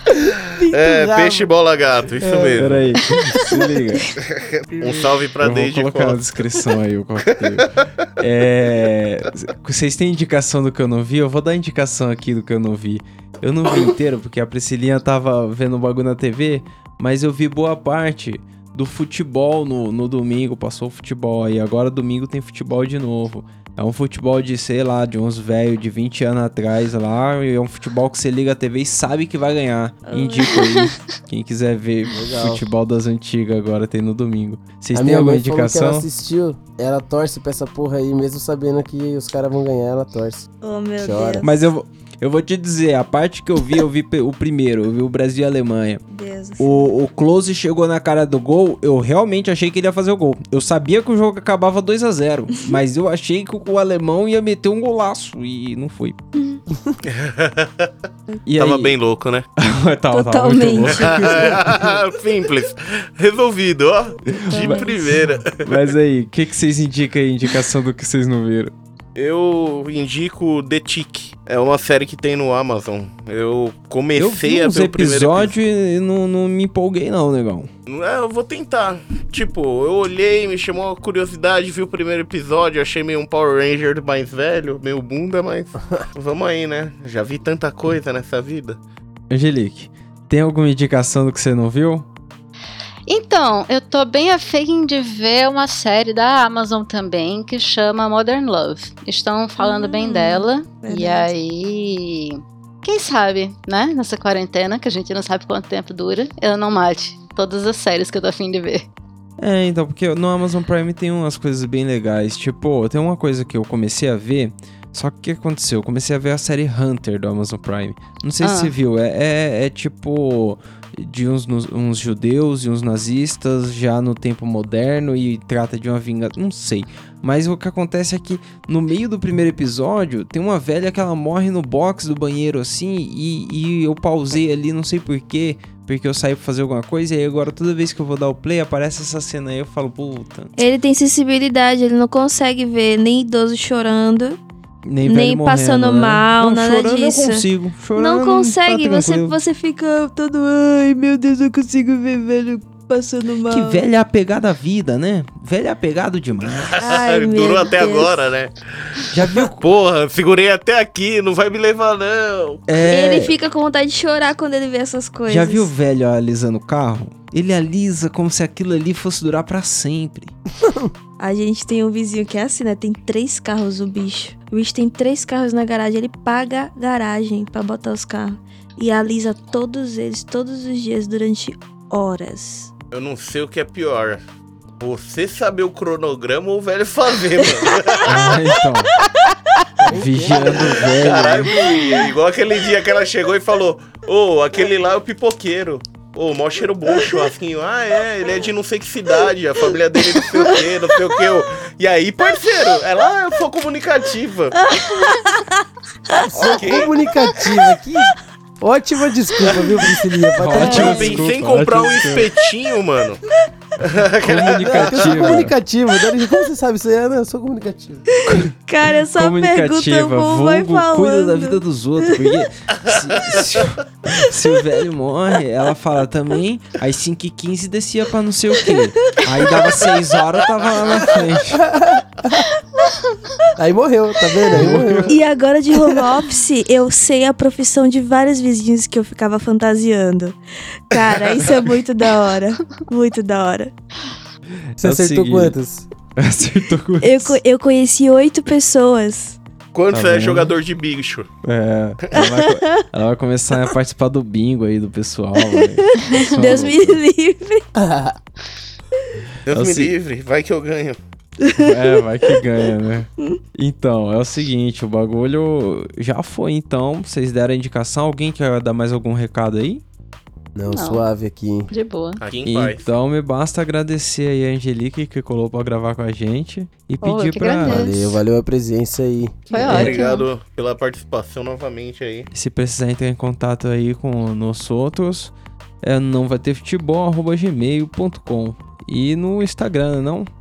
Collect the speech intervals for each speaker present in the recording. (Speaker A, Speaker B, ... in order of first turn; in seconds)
Speaker A: 0.2-1.5, 2.2-2.7, 4.7-5.2, 32.1-32.6, 34.9-41.5, 170.6-170.9, 189.8-191.6, 206.2-211.2, 214.6-218.1, 231.6-232.5, 233.6-235.2, 244.8-245.9, 257.8-258.2, 270.6-271.7, 277.6-279.5
Speaker B: 0.7-3.0, 4.2-6.6, 7.5-7.8, 57.0-57.9, 58.6-59.5, 60.8-65.9, 69.2-75.5, 77.9-88.8, 156.6-162.7, 182.9-184.2, 184.8-188.4, 190.3-204.7, 206.3-207.1, 210.5-213.2, 213.8-215.4, 249.7-251.3, 259.5-261.0, 272.2-272.9, 279.6-282.3
Speaker C: 2.6-4.1, 5.4-36.1, 41.4-46.0, 46.6-56.2, 58.5-59.0, 59.6-61.9, 64.3-68.7, 74.2-77.7, 89.3-92.1, 109.4-140.6, 144.9-149.4, 153.5-156.8, 159.1-159.6, 162.7-163.4, 165.3-170.3, 188.0-188.9, 189.9-191.6, 210.4-212.3, 214.2-215.6, 218.3-231.6, 234.5-235.1, 244.8-245.6, 246.2-247.4, 249.9-250.6, 251.4-257.0, 259.5-259.9, 261.6-269.8, 272.5-277.9, 279.6-280.0, 282.3-290.3
Speaker D: 30.1-30.9, 40.6-41.6, 46.1-46.9, 56.4-56.6, 60.1-61.6, 64.4-65.2, 99.6-101.3, 140.6-144.4, 145.0-153.9, 156.8-158.2, 162.8-165.7, 171.2-182.7, 200.2-200.7, 204.6-206.3, 210.8-211.2, 218.1-222.4, 228.7-229.3, 235.1-240.4, 240.9-243.7, 247.0-249.4, 252.2-252.8, 255.4-257.6, 261.4-262.4
Speaker E: 93.1-108.9, 118.4-118.7, 270.7-271.1, 271.7-272.2, 277.0-278.0, 279.5-280.3